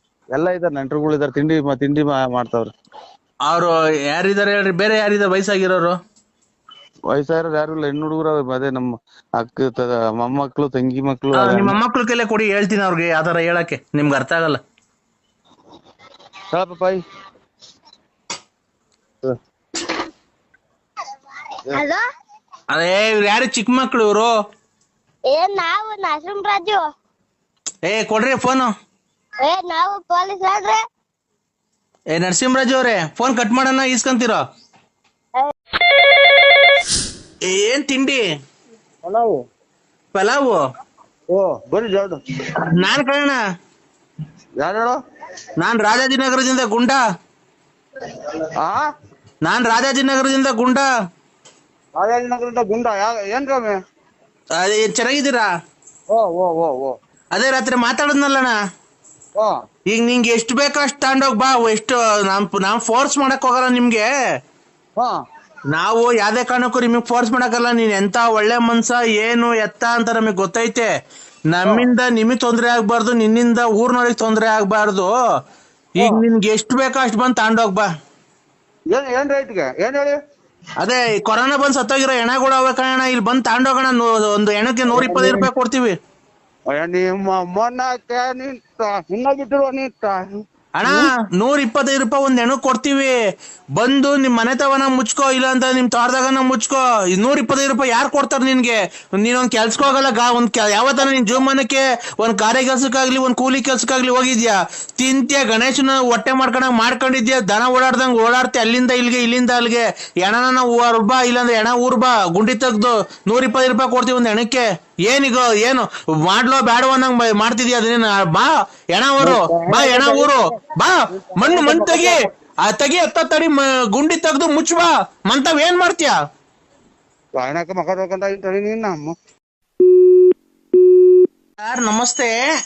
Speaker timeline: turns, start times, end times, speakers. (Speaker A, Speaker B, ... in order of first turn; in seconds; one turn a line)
Speaker A: 0.3-2.7
Speaker B: 3.5-6.0
Speaker A: 7.1-11.8
Speaker B: 11.3-14.6
Speaker A: 16.5-17.0
Speaker C: 21.7-22.0
Speaker B: 22.7-24.3
Speaker C: 25.3-26.9
Speaker B: 27.9-28.7
Speaker C: 29.4-30.8
Speaker B: 32.1-34.4
Speaker B: 37.5-38.2
Speaker A: 39.0-39.4
Speaker B: 40.1-40.6
Speaker A: 41.3-42.2
Speaker B: 42.7-43.4
Speaker A: 44.6-45.0
Speaker B: 45.6-47.0
Speaker A: 48.6-48.8
Speaker B: 49.4-50.9
Speaker A: 52.0-53.8
Speaker B: 54.5-55.5
Speaker A: 56.1-57.0
Speaker B: 57.3-58.5
Speaker B: 59.9-64.1
Speaker B: 65.7-70.9
Speaker B: 71.5-75.1
Speaker B: 76.0-77.9
Speaker A: 76.0-76.2
Speaker A: 78.9-80.2
Speaker B: 80.8-86.0
Speaker A: 84.9-85.5
Speaker A: 86.7-91.1
Speaker B: 90.8-93.2
Speaker B: 93.8-122.1
Speaker A: 119.2-120.3
Speaker A: 121.3-122.2
Speaker B: 122.7-126.2
Speaker A: 127.4-129.1
Speaker B: 131.6-132.4